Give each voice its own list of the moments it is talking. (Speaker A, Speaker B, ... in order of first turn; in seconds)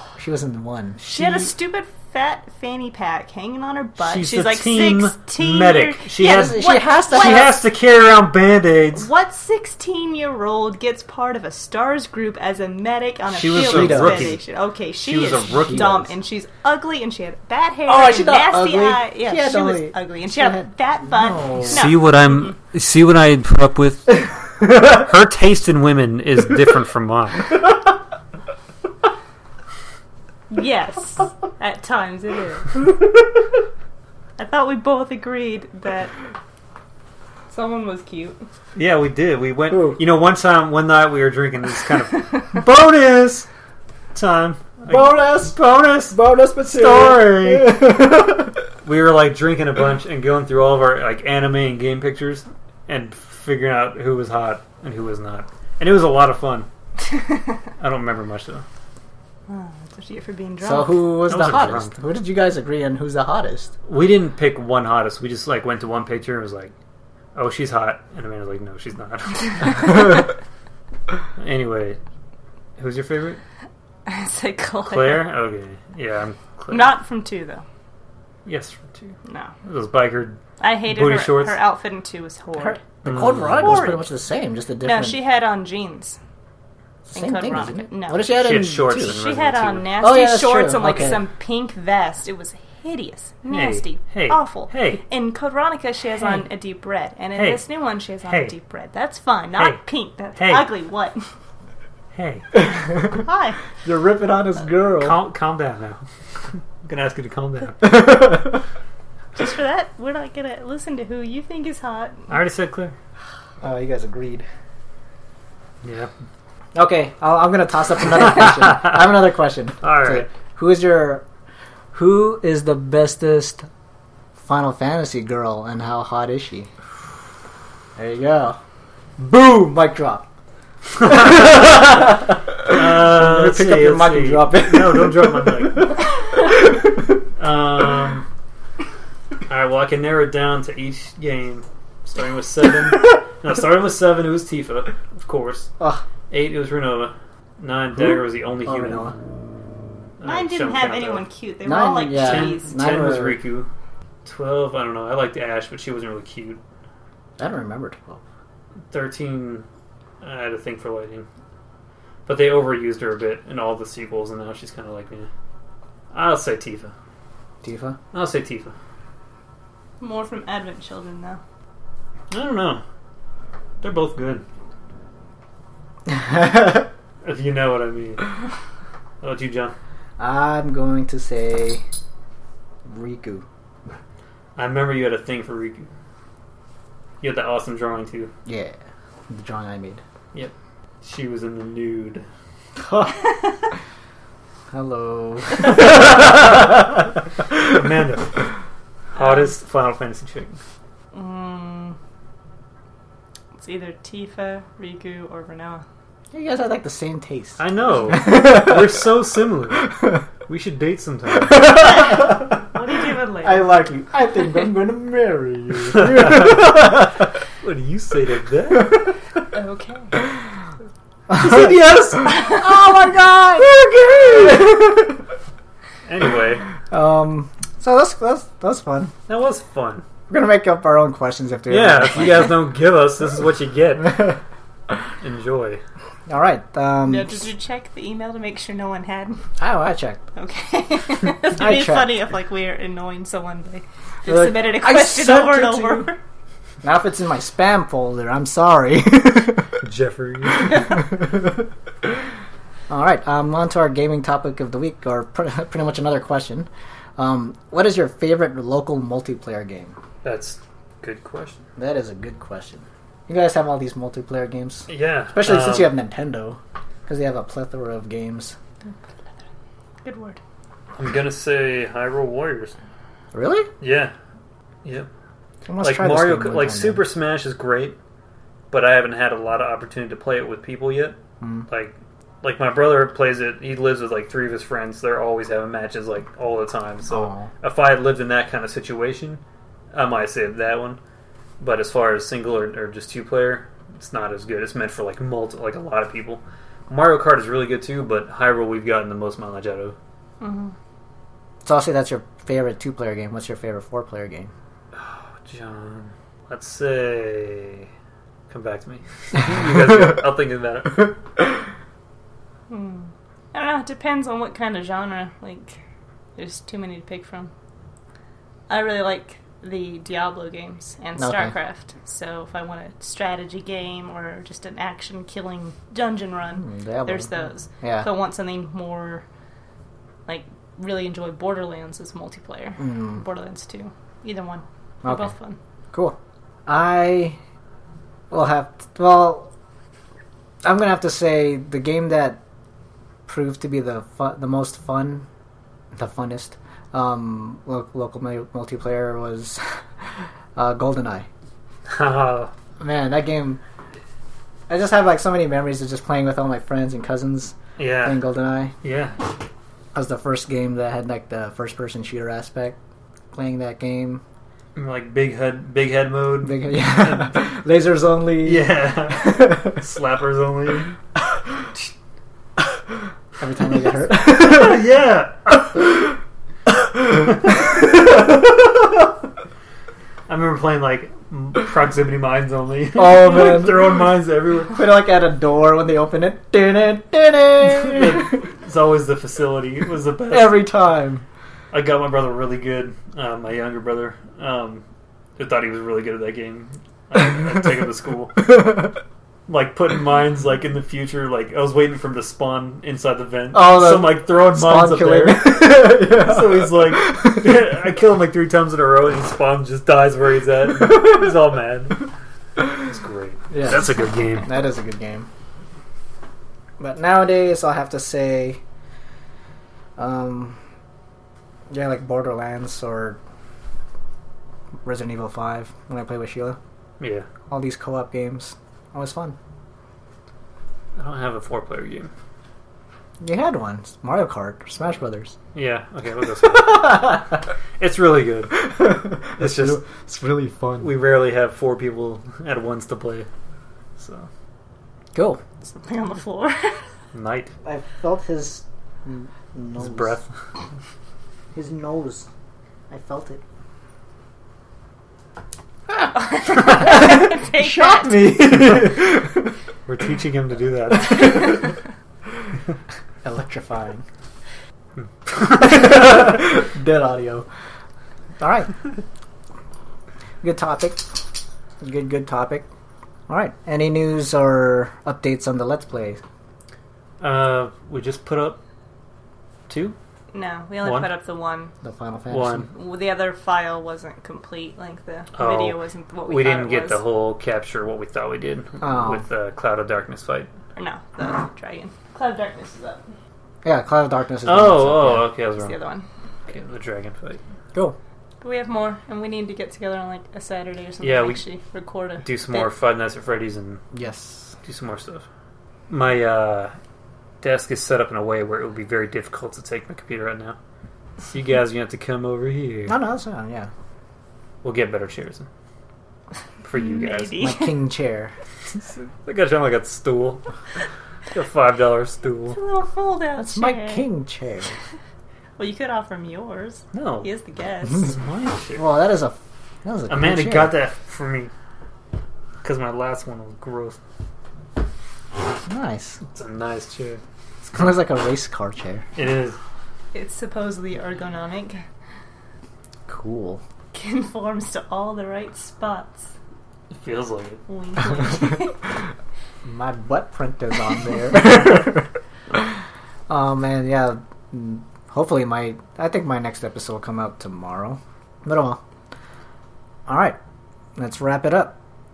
Speaker A: 0.2-1.0, 6.2-7.5, 13.5-14.4, 15.5-16.1, 17.9-21.9, 39.7-40.0, 44.9-45.6, 46.1-48.6, 60.6-63.7, 82.6-85.2, 87.1-89.2, 90.0-91.2, 102.7-103.2, 103.8-105.2, 107.8-108.6, 113.6-114.5, 116.7-121.2, 121.9-123.7, 124.4-126.7, 128.0-128.6, 129.2-130.3, 131.0-137.0, 145.8-146.0, 148.6-149.1, 151.6-153.4, 157.4-158.2, 167.6-168.0, 176.1-176.9, 180.2-181.8, 182.8-183.4, 188.4-188.8, 189.3-190.0, 192.8-193.2, 194.7-196.8, 206.3-209.1, 209.8-210.2, 211.4-212.6, 213.4-217.2, 218.7-219.1, 221.3-225.2, 226.9-229.1, 230.3-232.6, 236.3-237.4, 239.6-240.2, 241.6-242.2, 244.2-246.1, 246.8-249.7, 250.8-251.6, 252.9-259.9, 261.8-268.5, 273.3-273.7, 275.6-277.0, 281.4-281.6, 287.1-287.5, 301.6-304.5, 321.2-321.5, 326.6-328.1, 332.8-333.2, 335.0-335.3, 335.9-337.4, 338.3-339.5, 340.6-342.4, 343.3-345.2, 345.9-349.6, 350.5-351.3, 352.8-353.6, 354.7-358.7, 359.9-362.8, 363.3-364.2, 366.4-369.7, 373.4-374.8, 376.7-378.7, 382.9-384.0, 384.7-388.4, 390.3-391.2, 403.5-407.5, 413.5-415.3, 416.8-418.6, 420.0-420.6, 421.7-423.2, 424.8-426.6, 427.5-429.4, 433.2-435.3, 438.7-440.9, 445.1-445.4, 447.6-450.2, 451.5-452.3, 452.9-453.4, 456.6-459.5, 463.2-464.0, 465.5-467.5, 468.4-468.7, 470.4-471.2, 471.8-472.7, 473.3-476.2, 481.8-482.7, 488.8-489.2, 493.6-495.3, 503.9-504.5, 512.9-513.7, 517.4-518.3, 523.4-524.7, 528.8-530.8, 535.6-536.2, 537.7-539.1, 543.1-543.6, 549.6-552.7, 553.3-558.8, 560.1-560.4, 561.0-561.8
Speaker B: 1.0-7.6, 8.9-22.5, 30.5-32.8, 34.4-36.1, 37.5-38.4, 59.5-61.1, 74.0-75.3, 76.7-77.6, 79.2-79.5, 80.6-84.1, 84.8-86.2, 87.1-101.2, 103.0-103.7, 109.3-112.3, 150.2-152.7, 170.0-171.4, 199.1-199.5, 201.1-201.9, 203.6-205.8, 211.6-213.7, 219.5-220.2, 237.1-239.4, 240.3-246.2, 270.0-270.4, 300.4-300.7, 312.7-315.8, 316.4-317.5, 318.7-329.2, 330.3-335.6, 445.6-446.8, 456.0-458.2, 480.3-481.7, 482.7-487.0, 490.7-493.1, 495.6-496.1, 498.4-502.7, 516.7-517.7, 522.5-524.0, 525.6-528.1, 540.1-541.8, 543.9-546.3, 547.7-548.8
Speaker C: 1.0-1.5, 4.0-9.1, 13.3-14.4, 15.0-16.0, 21.7-27.6, 38.8-43.5, 44.1-47.9, 48.8-56.7, 57.8-58.6, 61.3-62.0, 63.9-66.7, 67.3-70.2, 71.4-72.0, 72.8-73.4, 74.9-76.9, 78.5-79.1, 79.6-81.6, 83.0-83.9, 88.3-89.9, 93.5-95.0, 97.3-97.6, 98.2-98.5, 100.3-100.7, 102.1-102.5, 105.0-106.0, 106.8-108.2, 112.3-112.9, 115.8-116.1, 118.4-118.9, 119.8-120.3, 132.6-135.9, 137.4-138.2, 139.5-145.7, 146.3-149.0, 150.2-151.2, 152.2-153.7, 154.2-156.6, 158.9-159.7, 160.2-161.3, 162.2-165.3, 166.1-166.9, 168.1-168.7, 172.3-172.8, 173.8-174.4, 177.2-178.2, 179.2-179.7, 184.6-185.9, 187.2-188.3, 190.3-192.2, 195.6-196.7, 197.5-198.4, 199.1-200.6, 207.6-209.9, 210.4-211.8, 215.9-216.7, 217.6-219.0, 221.3-222.5, 226.0-226.6, 229.3-230.0, 231.7-234.4, 235.2-235.8, 249.8-251.0, 260.2-261.6, 264.9-266.0, 270.9-272.7, 273.8-274.1, 275.8-278.0, 278.7-289.4, 289.9-291.0, 291.6-299.9, 304.9-307.9, 308.5-311.1, 351.9-352.5, 357.8-358.2, 358.8-359.2, 364.8-367.4, 368.4-371.0, 374.1-375.8, 380.3-384.8, 387.7-390.7, 391.7-394.8, 395.4-398.7, 399.5-412.0, 412.7-414.5, 427.0-427.3, 431.0-432.1, 435.5-439.8, 440.8-443.3, 444.0-444.3, 447.1-447.5, 449.8-450.2, 458.5-458.9, 459.9-461.6, 465.0-465.8, 477.2-478.6, 479.7-479.9, 480.8-481.1, 482.3-482.7, 485.3-490.5, 494.4-495.7, 496.5-497.4, 501.0-501.4, 502.2-503.8, 504.6-505.2, 505.9-506.7, 507.4-510.6, 511.2-513.0, 514.6-515.5, 516.6-517.4, 518.7-520.4, 521.3-522.6, 526.9-527.3, 528.0-528.9, 530.1-531.5, 532.6-534.0, 536.2-537.2, 539.1-539.6, 546.9-547.6